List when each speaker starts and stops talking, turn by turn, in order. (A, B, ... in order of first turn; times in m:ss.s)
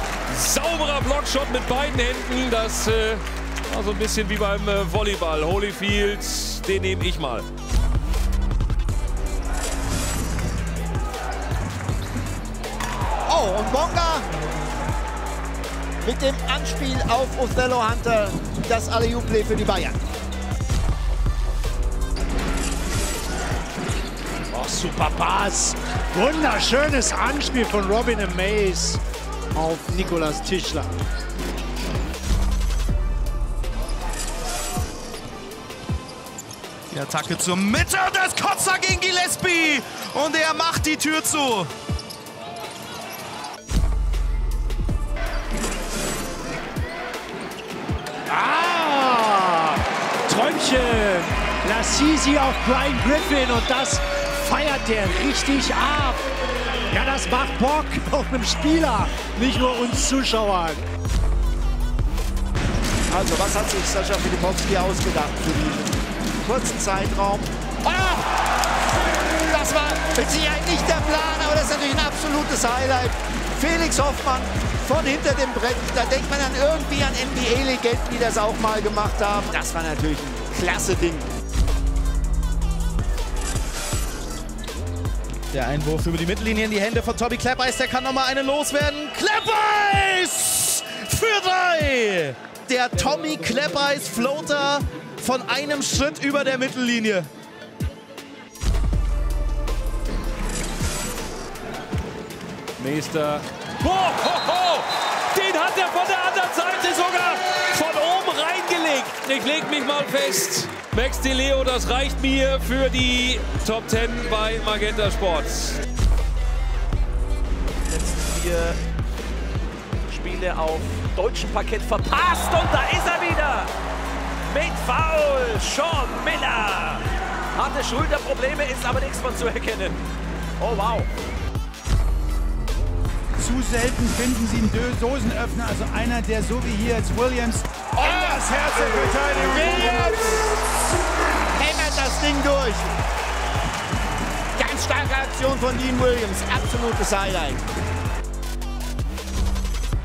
0:00.3-0:07.4 A
0:13.3-0:14.3 B
0:16.0-0:20.0 B
0:24.5-0:29.0 C
0:29.5-0:30.9 C
0:36.9-0:41.7 D
0:48.3-0:56.3 C
0:56.9-1:00.8 C
1:03.1-1:08.2 B
1:09.5-1:21.2 B
1:25.5-1:37.3 D
1:42.8-1:55.8 A
1:57.9-1:58.8 E
2:00.1-2:03.7 E
2:04.5-2:10.0 E
2:10.6-2:11.1 E
2:13.4-2:20.4 F
2:18.0-2:18.4 B
2:19.4-2:20.4 B
2:21.6-2:22.9 B
2:24.6-2:27.6 B